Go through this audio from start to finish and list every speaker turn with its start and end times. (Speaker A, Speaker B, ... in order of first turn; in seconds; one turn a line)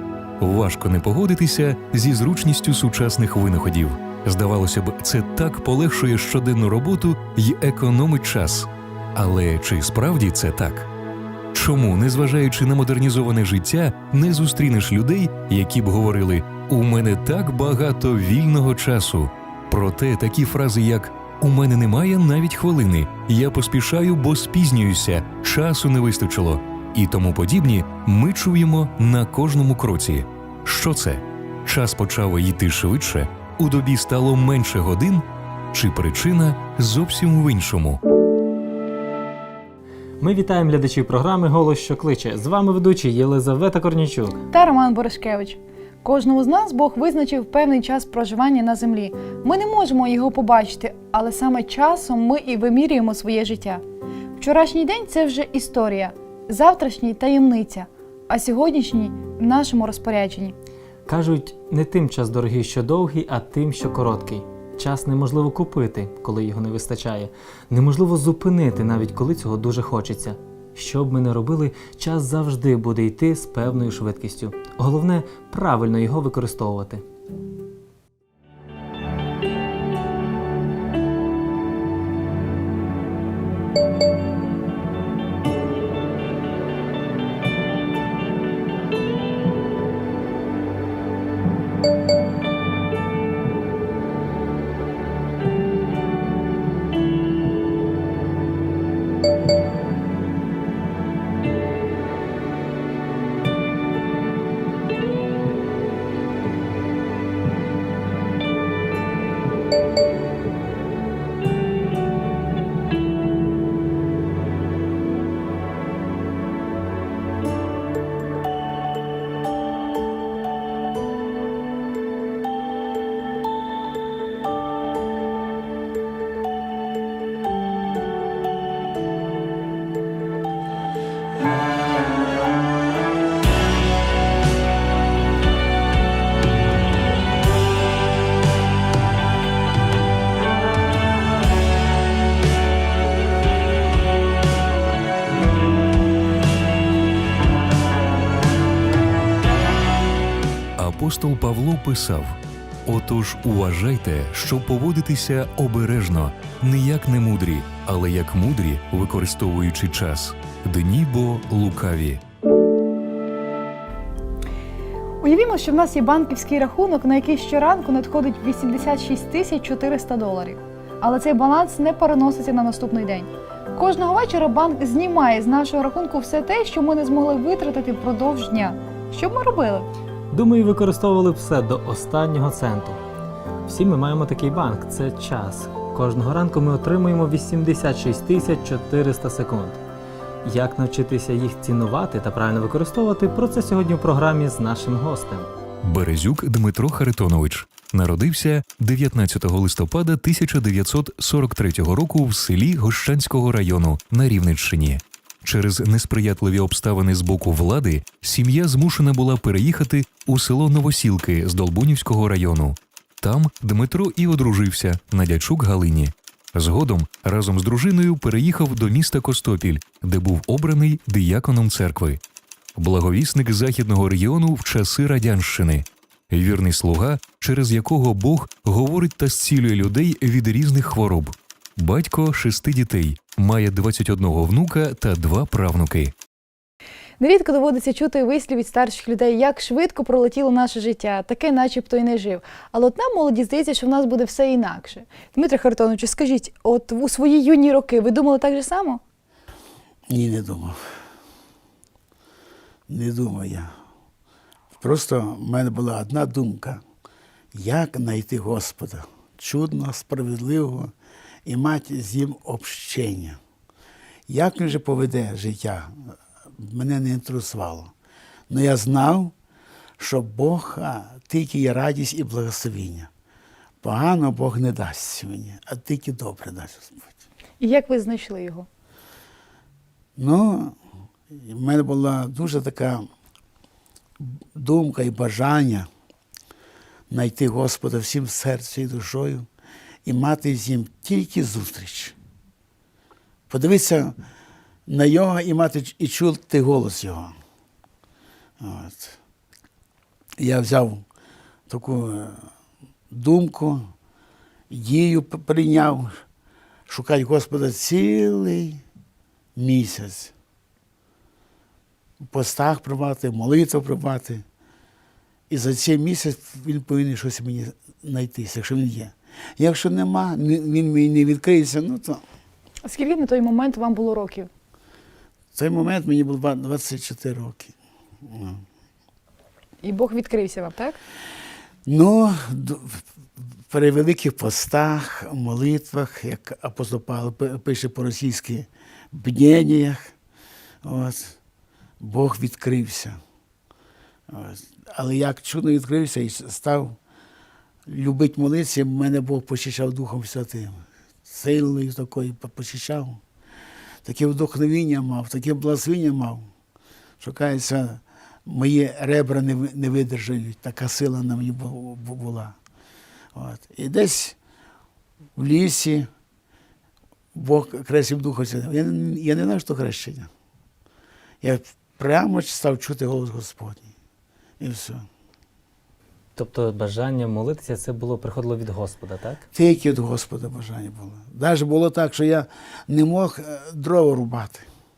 Speaker A: 0.4-10.9
Speaker A: 11.5-38.0
Speaker B: 40.2-44.5
Speaker C: 44.5-53.8
Speaker C: 54.4-60.5
Speaker B: 61.1-77.0
Speaker A: 150.8-152.3
Speaker A: 152.9-162.2
Speaker C: 165.2-179.9
Speaker B: 180.3-183.0
Speaker B: 183.7-189.8
Speaker B: 190.4-195.5
Speaker A: 195.8-222.2
Speaker A: 222.8-236.1
Speaker C: 237.2-249.0
Speaker D: 250.1-250.8
Speaker D: 252.9-253.7
Speaker D: 254.8-256.8
Speaker D: 257.5-260.9
Speaker D: 261.5-263.4
Speaker D: 264.3-265.9
Speaker D: 266.6-267.9
Speaker D: 268.5-269.3
Speaker D: 270.0-273.1
Speaker D: 273.8-277.1
Speaker C: 277.6-278.7
Speaker D: 280.2-280.8
Speaker D: 281.3-283.1
Speaker D: 284.2-285.9
Speaker D: 287.1-289.5
Speaker D: 290.1-292.1
Speaker D: 293.5-294.2
Speaker D: 294.9-297.3
Speaker D: 298.6-299.2
Speaker D: 300.4-301.1
Speaker D: 301.7-302.5
Speaker D: 303.1-303.9
Speaker D: 304.7-306.2
Speaker D: 306.9-308.8
Speaker D: 309.6-310.3
Speaker D: 312.2-314.4
Speaker D: 315.5-322.2
Speaker C: 322.9-324.5
Speaker D: 325.6-327.7
Speaker D: 328.2-328.6
Speaker C: 329.8-331.0
Speaker D: 331.9-333.0
Speaker D: 333.7-340.1
Speaker D: 340.8-341.4
Speaker D: 342.0-343.2
Speaker D: 344.3-347.0
Speaker D: 347.9-353.2
Speaker D: 354.1-356.5
Speaker D: 357.2-362.6
Speaker D: 363.4-364.4
Speaker D: 365.4-366.1
Speaker D: 367.4-370.3
Speaker D: 371.4-373.9
Speaker D: 374.6-375.1
Speaker B: 376.4-379.4
Speaker D: 379.5-384.7